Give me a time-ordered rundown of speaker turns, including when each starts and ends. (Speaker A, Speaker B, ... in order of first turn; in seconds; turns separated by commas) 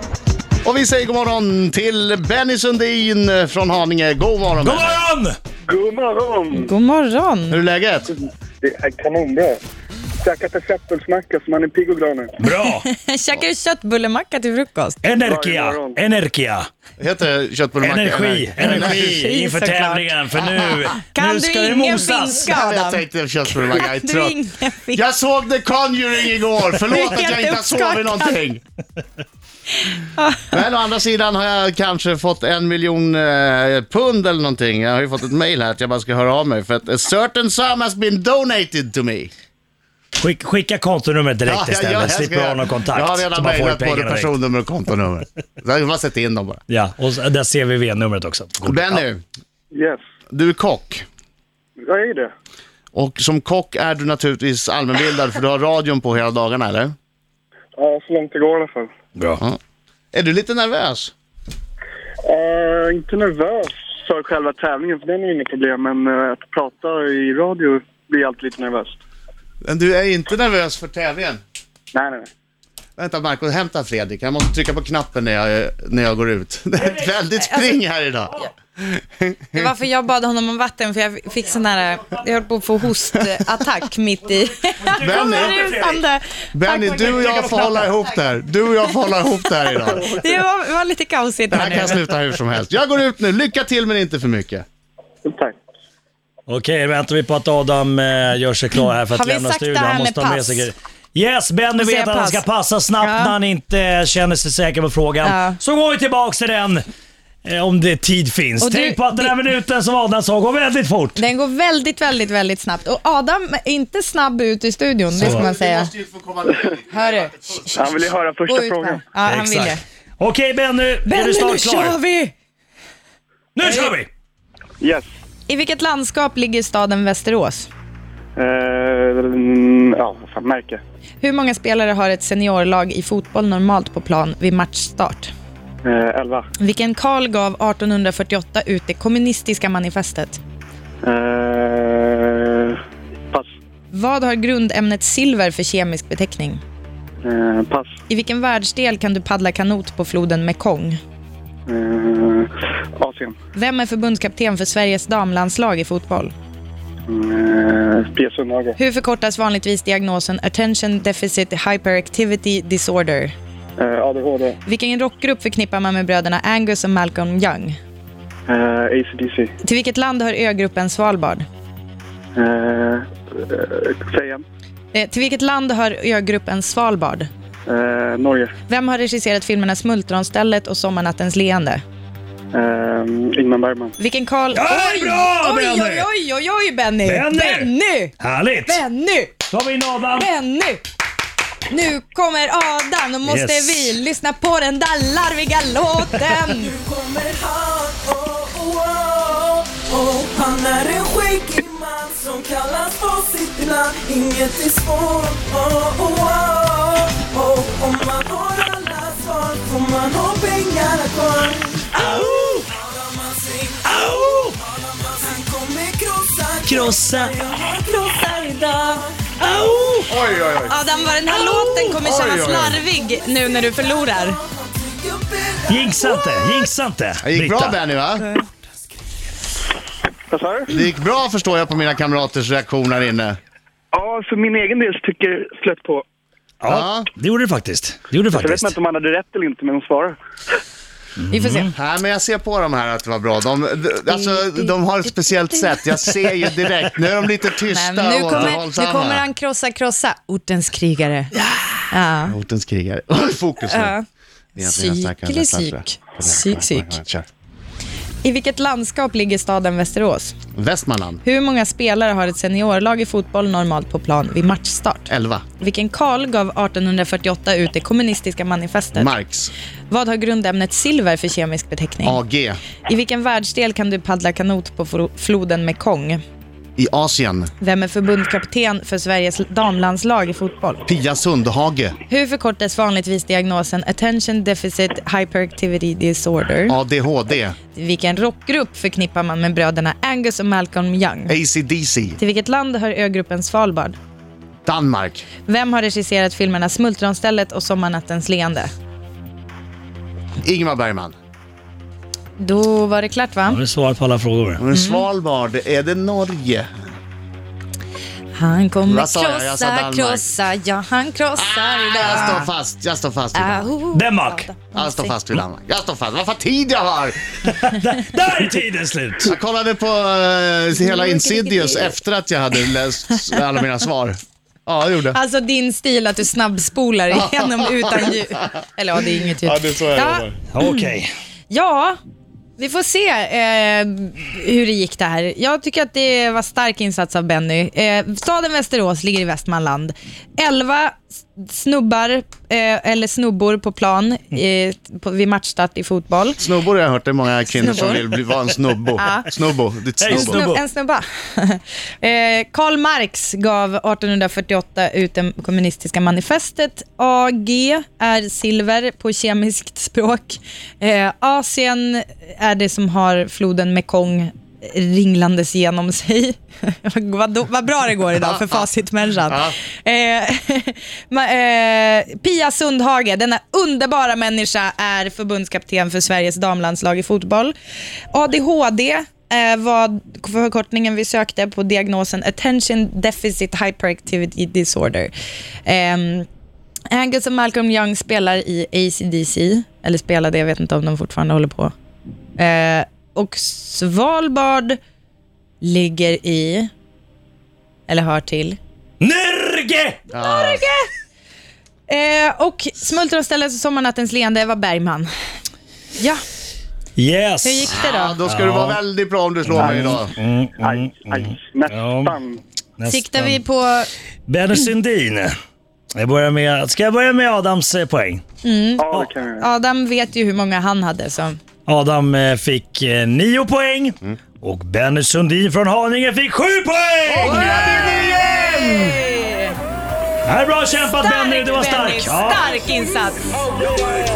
Speaker A: 0.6-5.0, Speaker B: 4.6-5.4, Speaker C: 5.7-6.7, Speaker D: 6.5-7.6, Speaker A: 7.5-8.1, Speaker C: 8.2-9.6, Speaker C: 10.2-12.3, Speaker B: 12.4-12.9, Speaker D: 12.5-15.0, Speaker B: 15.0-16.7, Speaker C: 15.2-16.0, Speaker A: 17.0-19.2, Speaker B: 17.8-22.6, Speaker D: 18.6-25.0, Speaker A: 22.5-24.4, Speaker A: 24.9-28.6, Speaker D: 26.8-28.4, Speaker D: 29.9-30.4, Speaker A: 30.5-39.3, Speaker B: 40.2-44.3, Speaker A: 41.5-46.6, Speaker B: 46.7-49.0, Speaker A: 48.6-49.2, Speaker C: 49.7-50.0, Speaker A: 50.3-51.0, Speaker C: 51.8-52.3, Speaker A: 52.9-56.9, Speaker C: 57.8-58.9, Speaker B: 59.2-59.4, Speaker A: 60.1-61.1, Speaker C: 62.2-69.0, Speaker A: 69.6-71.4, Speaker C: 71.9-72.3, Speaker A: 73.0-79.7, Speaker B: 76.9-77.1, Speaker D: 77.4-77.7, Speaker D: 79.5-88.1, Speaker B: 84.6-86.0, Speaker A: 85.0-85.6, Speaker A: 86.5-90.1, Speaker D: 89.5-92.0, Speaker A: 91.5-94.7, Speaker C: 95.2-95.6, Speaker B: 96.5-106.8, Speaker D: 99.0-100.7, Speaker D: 101.8-102.4, Speaker D: 103.0-103.4, Speaker D: 105.2-105.6, Speaker B: 107.5-111.2, Speaker D: 108.6-109.4, Speaker D: 111.2-115.9, Speaker A: 115.1-117.2, Speaker B: 115.2-115.5, Speaker D: 116.9-119.8, Speaker C: 117.8-119.0, Speaker B: 119.2-122.0, Speaker D: 121.1-122.3, Speaker B: 123.5-124.1, Speaker D: 123.6-123.9, Speaker C: 124.8-125.1, Speaker D: 125.5-127.7, Speaker C: 128.4-130.8, Speaker D: 131.2-135.3, Speaker C: 135.8-136.5, Speaker D: 136.6-140.4, Speaker C: 141.0-143.5, Speaker D: 143.9-146.6, Speaker C: 147.2-147.9, Speaker D: 148.1-151.0, Speaker C: 151.7-153.4, Speaker D: 153.5-156.3, Speaker C: 157.1-158.8, Speaker D: 158.8-163.3, Speaker C: 163.8-164.6, Speaker D: 164.7-167.8, Speaker C: 168.5-169.5, Speaker D: 169.6-171.4, Speaker C: 172.3-174.4, Speaker D: 174.9-177.3, Speaker C: 177.7-178.5, Speaker D: 178.7-181.8, Speaker C: 182.5-183.9, Speaker D: 184.0-188.2, Speaker B: 184.5-186.1, Speaker B: 187.1-188.8, Speaker D: 188.7-189.4, Speaker B: 189.5-190.3, Speaker D: 190.1-190.8, Speaker D: 191.7-196.7, Speaker B: 193.2-194.0, Speaker E: 196.6-219.9, Speaker B: 211.9-212.7, Speaker B: 213.8-214.5, Speaker B: 216.7-217.4, Speaker B: 219.4-220.1, Speaker A: 220.1-220.8, Speaker D: 220.6-224.4, Speaker B: 221.6-221.9, Speaker A: 221.9-222.8, Speaker E: 223.5-226.4, Speaker B: 225.7-227.8, Speaker A: 227.2-228.3, Speaker C: 230.3-230.7, Speaker A: 230.7-233.4, Speaker C: 233.9-236.0, Speaker B: 236.6-238.7, Speaker A: 236.7-237.1, Speaker C: 238.3-240.2, Speaker B: 241.2-241.7, Speaker D: 241.3-241.7, Speaker A: 241.7-249.3, Speaker D: 244.1-244.8, Speaker D: 247.7-251.3, Speaker B: 248.3-248.6, Speaker D: 251.9-252.3, Speaker A: 252.3-253.9, Speaker D: 253.7-254.0, Speaker D: 254.6-257.0, Speaker A: 254.6-257.3, Speaker D: 258.2-260.4, Speaker A: 260.6-261.2, Speaker D: 261.2-269.1, Speaker A: 265.1-265.4, Speaker A: 268.9-269.5, Speaker D: 269.9-272.2, Speaker A: 272.0-272.6, Speaker D: 272.9-276.2, Speaker A: 276.8-277.5, Speaker D: 277.6-280.8, Speaker A: 280.9-282.0, Speaker D: 282.1-286.8, Speaker A: 286.7-287.6, Speaker D: 287.7-291.3, Speaker A: 291.3-292.2, Speaker D: 292.2-294.0, Speaker A: 294.7-295.3, Speaker D: 295.5-298.7, Speaker A: 300.4-301.1, Speaker D: 302.4-303.6, Speaker B: 303.5-304.6, Speaker A: 304.6-306.7, Speaker D: 304.7-305.1, Speaker D: 308.3-312.5, Speaker A: 308.9-310.3, Speaker A: 311.4-313.7, Speaker D: 313.4-315.1, Speaker B: 313.9-314.5, Speaker A: 314.7-317.3, Speaker B: 317.4-319.4, Speaker A: 319.2-325.2, Speaker D: 320.8-322.0, Speaker D: 325.1-330.9, Speaker A: 327.1-328.1, Speaker A: 329.4-330.4, Speaker B: 330.5-331.1, Speaker D: 331.5-332.0, Speaker D: 332.6-346.4, Speaker A: 346.4-350.4, Speaker D: 347.5-348.0, Speaker D: 349.0-349.3, Speaker B: 350.0-350.6, Speaker D: 350.1-377.5, Speaker A: 368.2-368.6, Speaker A: 369.3-369.6, Speaker D: 378.1-385.1, Speaker D: 385.6-386.3, Speaker D: 386.9-391.7, Speaker D: 392.4-394.8, Speaker D: 395.6-396.7, Speaker D: 397.9-398.6, Speaker B: 399.0-400.0, Speaker A: 400.1-400.6, Speaker D: 400.2-400.9, Speaker D: 401.9-405.1, Speaker D: 406.0-406.2, Speaker B: 407.0-407.7, Speaker D: 407.4-408.2, Speaker A: 407.7-410.1, Speaker B: 408.2-408.8, Speaker B: 409.5-412.2, Speaker C: 409.6-412.4, Speaker B: 412.8-413.4, Speaker D: 412.8-413.9, Speaker B: 414.3-415.3, Speaker B: 415.9-418.2, Speaker D: 418.4-421.4, Speaker C: 418.8-419.5, Speaker B: 421.7-428.0, Speaker A: 427.1-429.0, Speaker D: 427.2-429.6, Speaker B: 430.3-432.5, Speaker D: 430.9-433.4